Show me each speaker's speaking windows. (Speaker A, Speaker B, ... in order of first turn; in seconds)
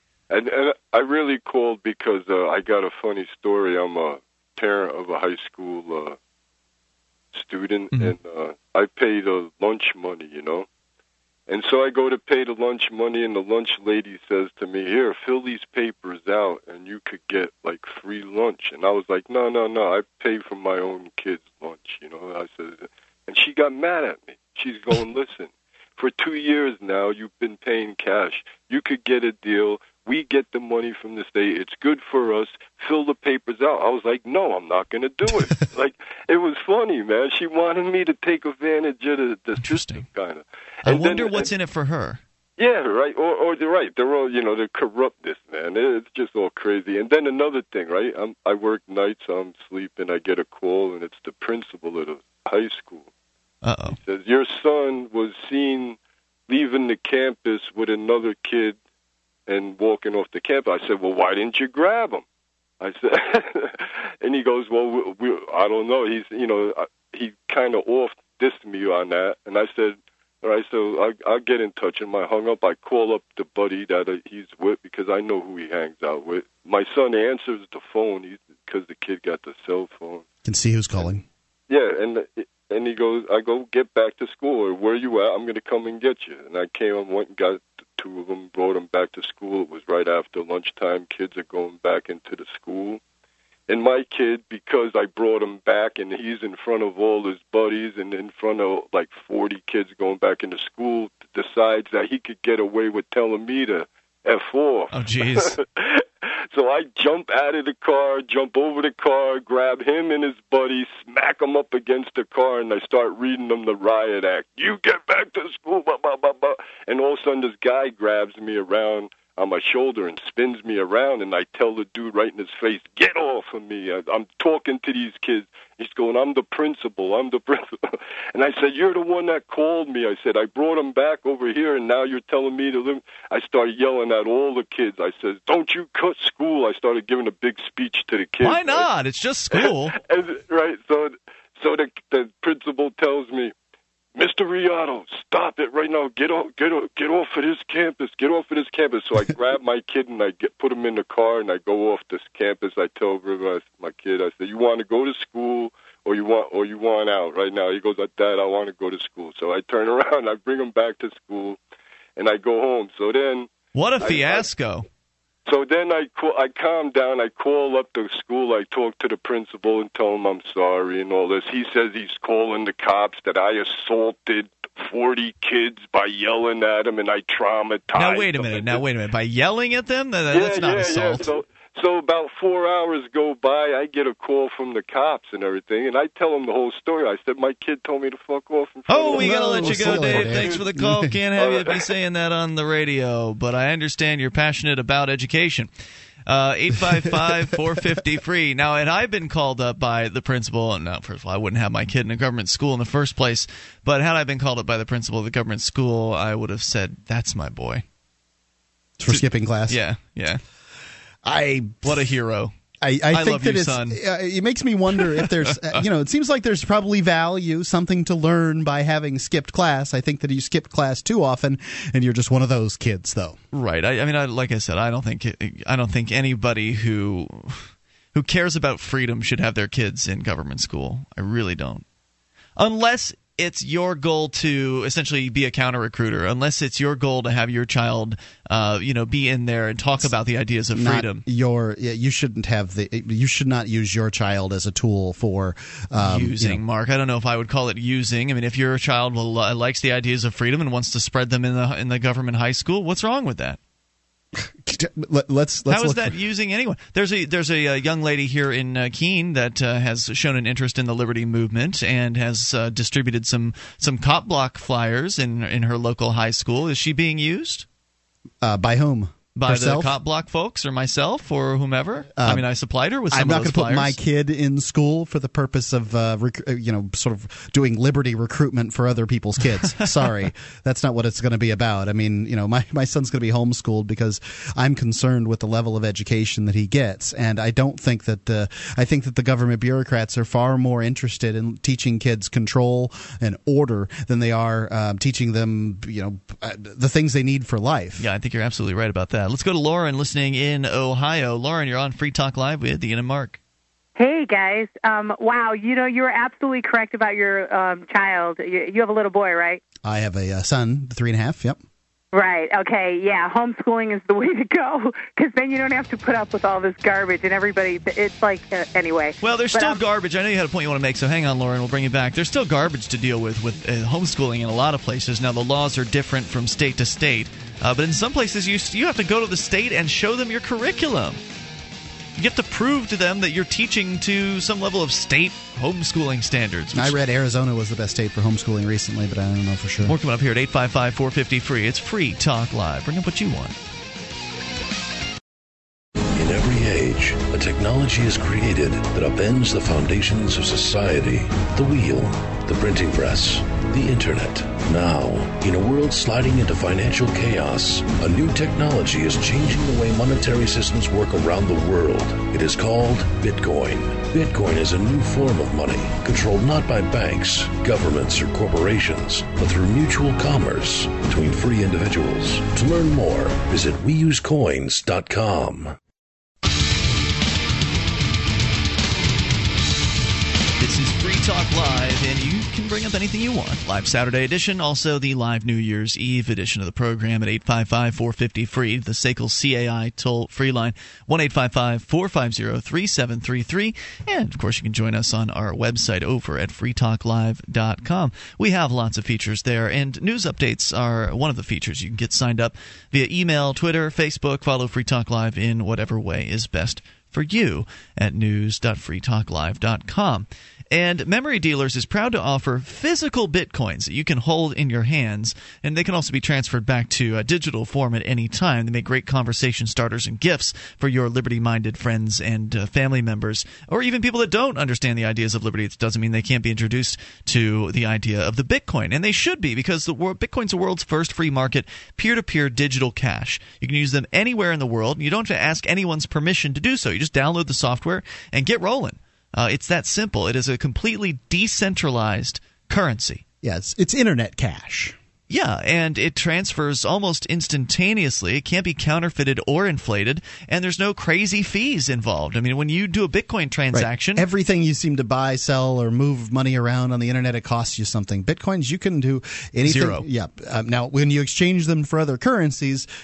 Speaker A: 0.3-6.2, 7.3-10.7, 11.5-41.5, 42.6-53.1, 53.9-58.8, 59.5-62.2, 62.8-80.2, 81.7-93.0, 93.7-127.8, 128.3-138.9, 139.5-143.5, 144.2-161.6, 162.2-164.4, 165.4-178.8, 180.3-190.6, 191.4-191.8
Speaker B: 39.6-40.1, 40.8-42.2, 53.6-54.0, 104.9-105.6, 138.4-140.0, 163.7-164.8, 177.9-181.3, 188.9-195.7, 196.3-207.8, 209.1-210.4, 211.8-212.5, 213.1-214.0, 214.9-215.8, 223.5-231.8, 232.6-241.2, 246.0-253.6, 255.7-267.6, 269.4-274.0, 298.0-303.4, 319.2-331.2, 332.2-336.9, 339.8-343.6, 380.6-443.2, 445.3-454.2, 459.6-460.0
Speaker C: 80.4-81.2, 189.1-191.2, 209.0-209.8, 211.2-212.1, 212.8-223.4, 240.7-246.6, 254.3-256.1, 268.4-269.9, 272.1-272.4, 273.1-298.0, 309.8-311.6, 336.7-339.9, 443.4-444.9, 453.7-462.9
Speaker D: 303.9-309.6, 312.1-319.8
Speaker E: 346.1-375.8